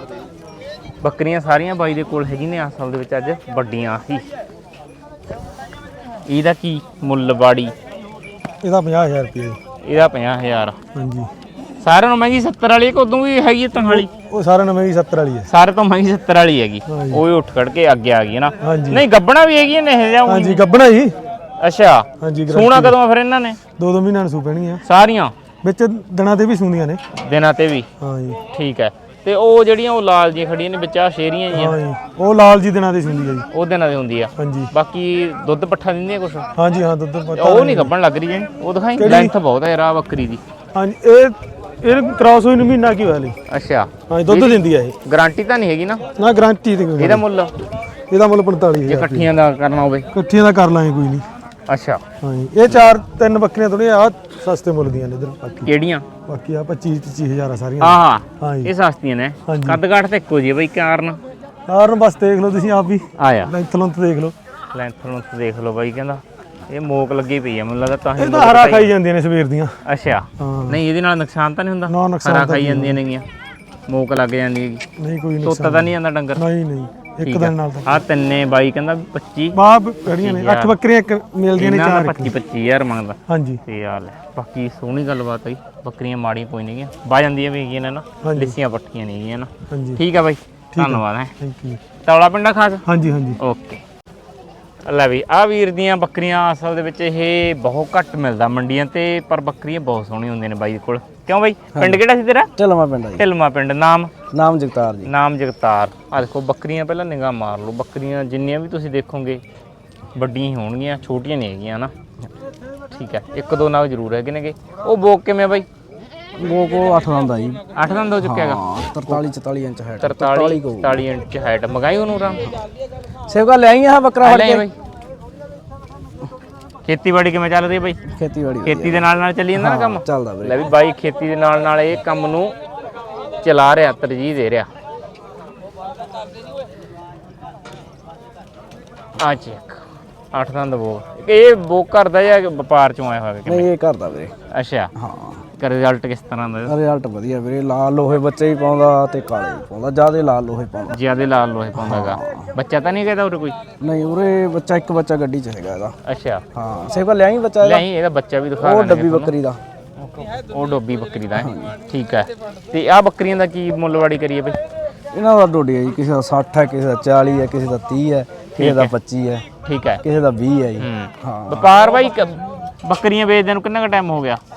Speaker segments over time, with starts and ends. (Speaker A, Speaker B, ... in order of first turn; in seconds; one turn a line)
Speaker A: 1.0-4.2
Speaker A: 6.3-7.7
Speaker B: 8.6-9.6
Speaker A: 9.8-10.8
Speaker B: 10.9-11.3
Speaker A: 11.8-14.1
Speaker B: 13.8-15.5
Speaker A: 15.5-20.6
Speaker B: 16.9-17.2
Speaker B: 18.6-19.0
Speaker B: 20.2-21.2
Speaker A: 21.6-23.6
Speaker B: 22.2-22.9
Speaker B: 23.8-24.8
Speaker A: 24.8-25.3
Speaker B: 25.6-27.0
Speaker A: 27.1-27.9
Speaker B: 28.0-28.4
Speaker A: 28.5-31.8
Speaker B: 31.5-33.5
Speaker A: 33.5-36.5
Speaker B: 34.4-34.7
Speaker B: 36.5-37.9
Speaker A: 37.3-40.4
Speaker B: 39.0-39.3
Speaker B: 40.7-43.4
Speaker A: 43.5-46.1
Speaker B: 44.1-45.0
Speaker B: 46.1-47.2
Speaker A: 47.0-47.5
Speaker B: 48.1-49.3
Speaker A: 48.8-50.1
Speaker B: 50.1-51.3
Speaker A: 51.7-52.0
Speaker B: 52.2-55.7
Speaker A: 55.6-56.0
Speaker B: 56.2-58.7
Speaker A: 57.8-61.2
Speaker B: 59.5-59.8
Speaker B: 61.7-64.3
Speaker A: 63.2-63.5
Speaker A: 64.7-68.9
Speaker B: 68.2-69.8
Speaker A: 69.8-73.2
Speaker B: 70.4-70.8
Speaker B: 71.9-73.0
Speaker A: 73.9-74.8
Speaker B: 75.0-78.0
Speaker A: 75.4-76.4
Speaker A: 77.2-80.8
Speaker B: 79.5-82.3
Speaker A: 81.6-91.3
Speaker B: 83.3-83.6
Speaker B: 88.2-88.5
Speaker B: 89.7-90.0
Speaker B: 90.7-91.8
Speaker A: 92.0-92.8
Speaker B: 92.8-93.4
Speaker A: 93.4-93.8
Speaker A: 94.8-102.5
Speaker C: 101.8-102.0
Speaker C: 102.5-103.2
Speaker A: 103.2-104.1
Speaker C: 104.3-105.1
Speaker A: 105.0-109.4
Speaker A: 110.2-111.9
Speaker A: 112.9-115.7
Speaker C: 116.3-117.6
Speaker A: 117.7-119.2
Speaker C: 118.2-121.0
Speaker A: 120.0-122.4
Speaker C: 123.3-124.7
Speaker A: 124.2-124.7
Speaker A: 126.8-128.0
Speaker C: 128.1-130.7
Speaker A: 128.6-132.5
Speaker A: 133.4-134.7
Speaker A: 139.2-139.8
Speaker A: 140.3-143.7
Speaker C: 143.4-144.3
Speaker A: 144.5-144.9
Speaker C: 144.9-145.4
Speaker A: 145.6-146.7
Speaker C: 146.7-151.0
Speaker A: 150.9-153.6
Speaker C: 151.7-152.5
Speaker C: 153.8-155.9
Speaker A: 156.0-156.4
Speaker C: 156.5-157.8
Speaker A: 157.6-159.3
Speaker C: 158.6-159.6
Speaker A: 160.0-164.6
Speaker C: 161.3-161.8
Speaker C: 165.1-169.4
Speaker A: 168.6-168.9
Speaker A: 169.6-170.0
Speaker C: 170.0-171.7
Speaker A: 170.8-174.4